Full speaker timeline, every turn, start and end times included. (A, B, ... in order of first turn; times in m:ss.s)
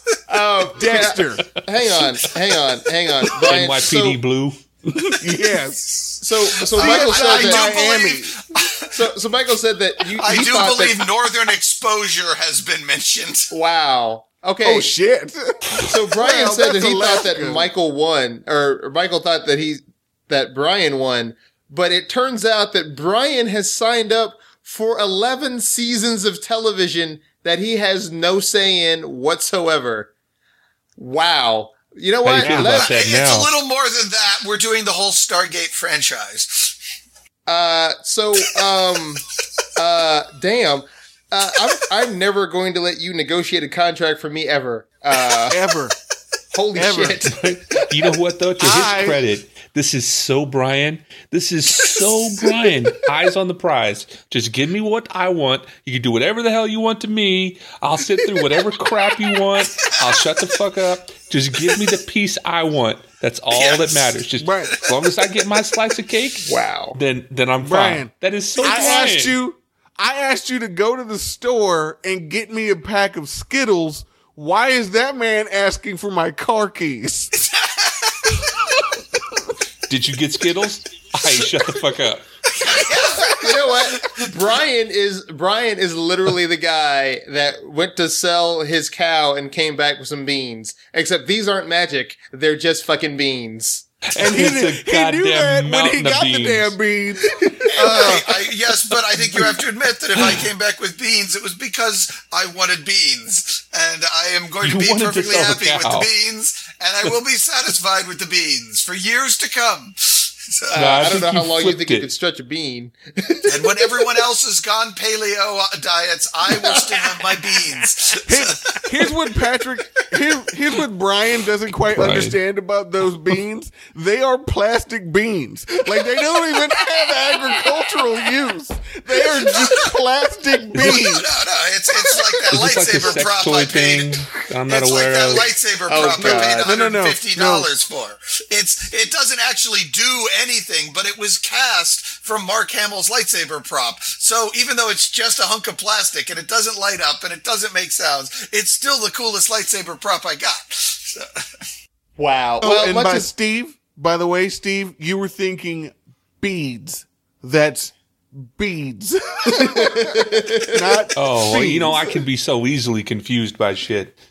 0:00.3-0:04.2 A
0:00.8-0:01.5 B
0:03.2-0:04.6 C
0:04.9-0:06.2 B
0:06.2-0:07.9 A
0:06.7-0:08.9 D
0:06.8-0:08.5 B
0:08.9-0:11.1 A
0:10.2-0:13.5 D
0:13.5-0:14.9 A
0:14.6-0:17.7 B
0:15.8-0:30.1 A
0:31.0-0:33.0 A
0:32.2-0:33.5 C
0:32.4-0:32.7 B
0:32.6-0:36.8 D
0:37.5-0:39.2 A
0:39.8-0:45.6 A
0:45.2-0:45.4 D
0:45.5-0:46.0 B
0:46.5-0:47.9 A
0:46.8-0:47.2 B
0:47.3-1:09.4 C
0:48.6-0:49.2 B
0:51.8-0:52.6 D
0:59.6-1:00.2 D
1:03.5-1:05.3 D
1:04.4-1:04.8 B
1:06.5-1:07.0 A
1:07.6-1:17.3 B
1:17.4-1:18.4 D
1:19.9-1:22.3 C
1:22.5-1:24.3 D
1:23.3-1:33.8 A
1:34.2-1:36.8 C
1:34.2-1:38.4 B
1:37.7-1:50.8 D
1:44.6-1:46.1 C
1:50.7-1:54.0 A
1:50.8-1:52.1 C
1:53.5-1:59.1 D
1:56.5-1:57.6 A
1:58.3-2:11.3 B
2:01.9-2:02.4 C
2:10.8-2:11.1 C
2:10.8-2:31.6 D
2:12.5-2:15.5 C
2:15.9-2:16.8 A
2:16.3-2:17.7 B
2:32.2-2:33.3 A
2:32.6-2:42.2 B
2:39.5-2:41.0 A
2:41.2-2:44.2 C